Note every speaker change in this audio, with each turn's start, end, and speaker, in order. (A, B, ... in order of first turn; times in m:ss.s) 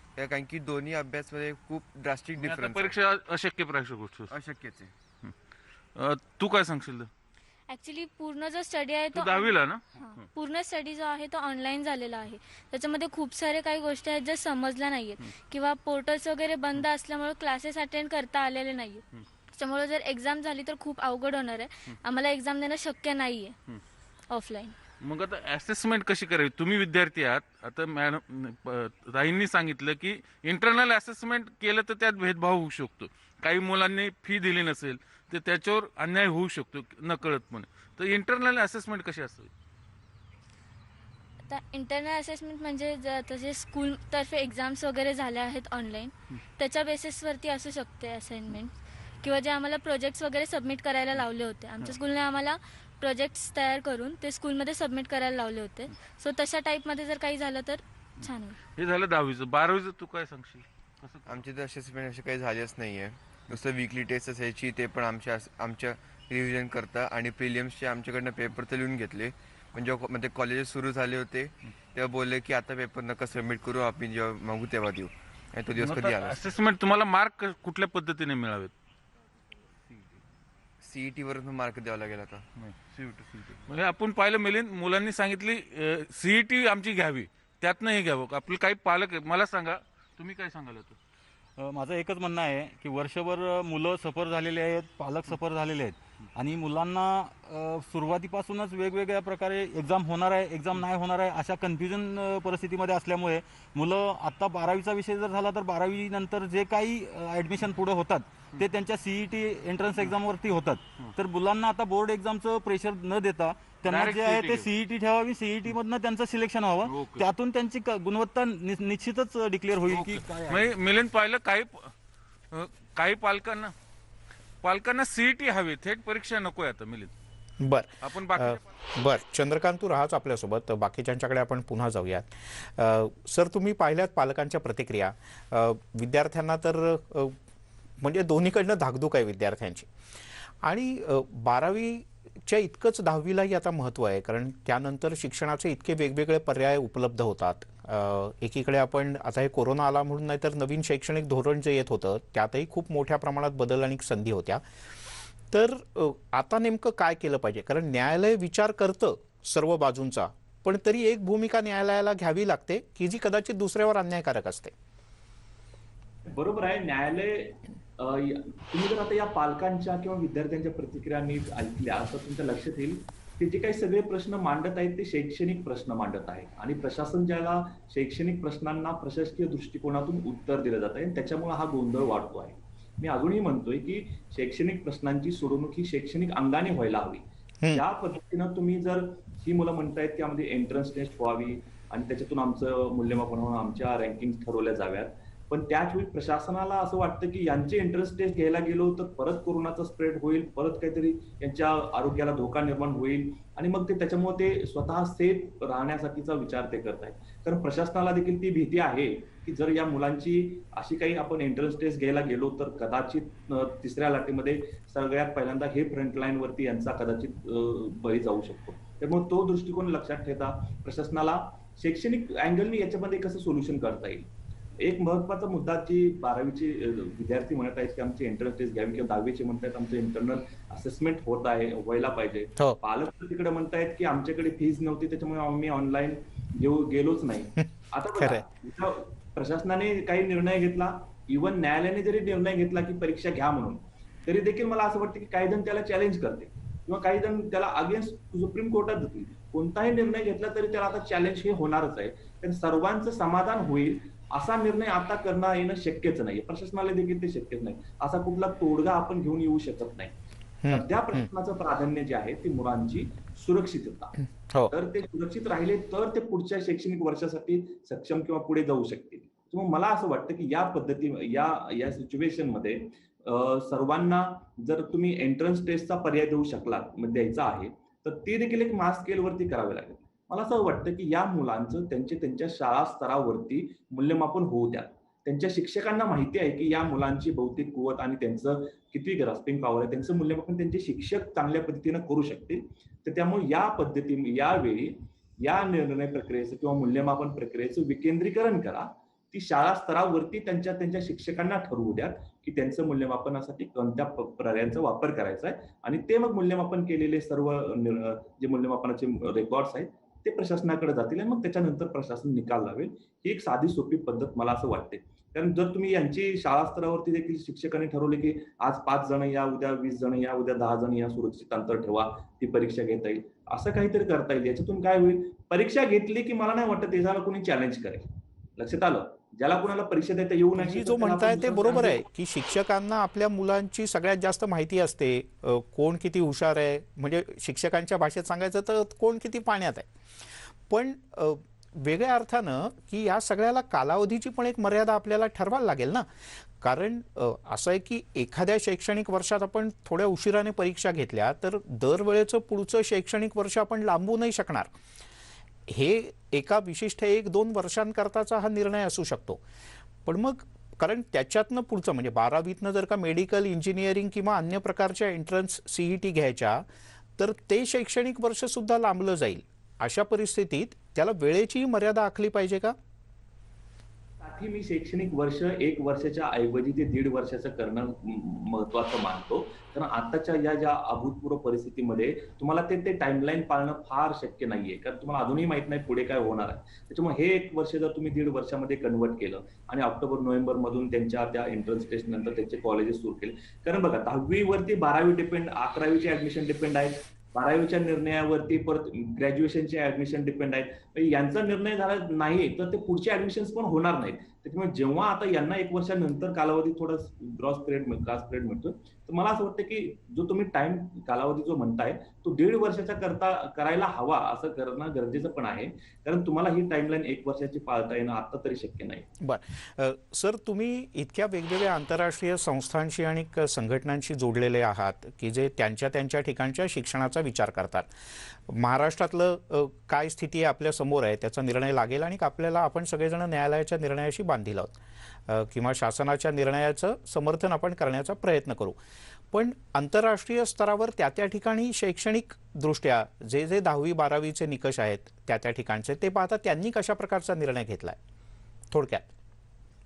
0:00.2-0:02.9 A
0:02.4-0:04.3 B
0:04.3-0:04.9 A
0:06.0-0:07.1 B
0:07.7-0:19.0 C
0:09.1-0:10.3 B
0:19.5-0:23.6 C
0:24.3-0:24.8 C
0:25.0-0:39.5 B
0:41.5-0:58.6 C
0:58.7-1:01.4 B
1:01.2-1:16.4 A
1:15.8-1:18.7 B
1:20.8-1:22.4 A
1:22.6-1:31.0 B
1:31.6-2:00.8 D
1:53.8-1:54.7 B
1:56.8-1:57.3 B
1:59.8-2:01.9 B
2:02.5-2:03.7 B
2:04.6-2:07.1 B
2:07.6-2:17.4 E
2:08.0-2:08.6 B
2:18.0-2:19.9 E
2:20.6-2:34.6 E
2:35.5-2:44.7 E
2:46.3-3:44.3 F
3:44.8-4:20.1 F
3:58.2-3:58.4 E
4:20.6-4:21.3 E
4:20.7-4:24.2 F
4:24.7-5:32.0 F
5:30.6-5:39.9 E
5:40.7-5:46.1 E
5:46.6-5:54.7 E
5:55.7-5:59.4 E
6:00.0-6:06.6 E
6:07.2-6:12.8 E
6:14.2-6:59.0 F
6:59.2-7:07.9 E
7:08.5-7:14.8 E
7:15.3-7:18.8 E
7:19.3-7:28.0 E
7:28.7-7:29.1 E